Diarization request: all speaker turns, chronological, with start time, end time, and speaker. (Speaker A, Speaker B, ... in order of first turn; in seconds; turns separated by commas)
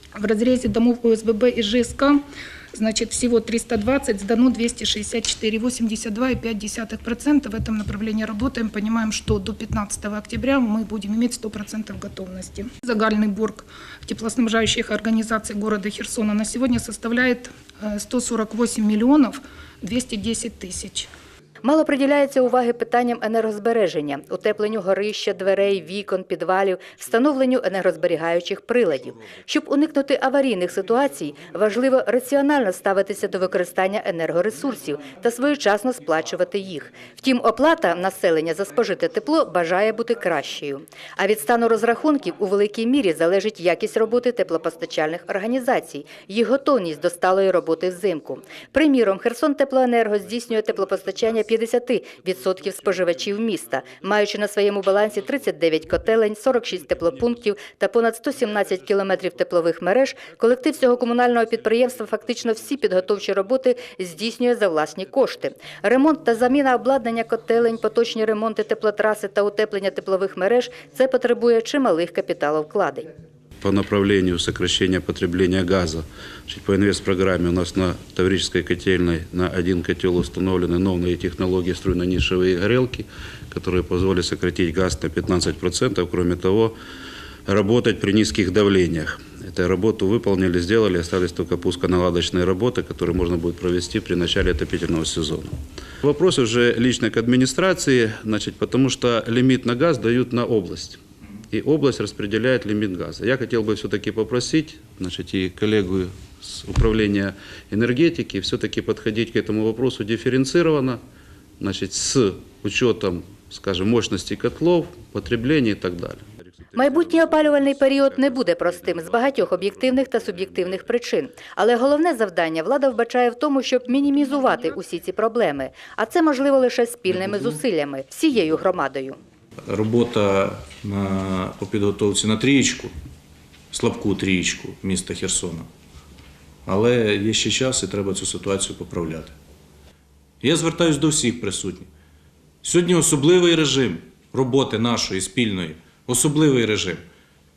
Speaker A: 0.2-2.2, Speaker A: 2.7-21.1, Speaker B: 21.6-73.1, Speaker C: 73.6-86.7, Speaker C: 87.5-101.0, Speaker C: 101.5-111.0, Speaker C: 111.6-117.5, Speaker B: 116.7-129.2, Speaker C: 120.3-120.5, Speaker D: 129.7-132.9, Speaker D: 133.7-135.7, Speaker D: 136.7-139.3, Speaker D: 140.4-141.9, Speaker D: 142.6-147.0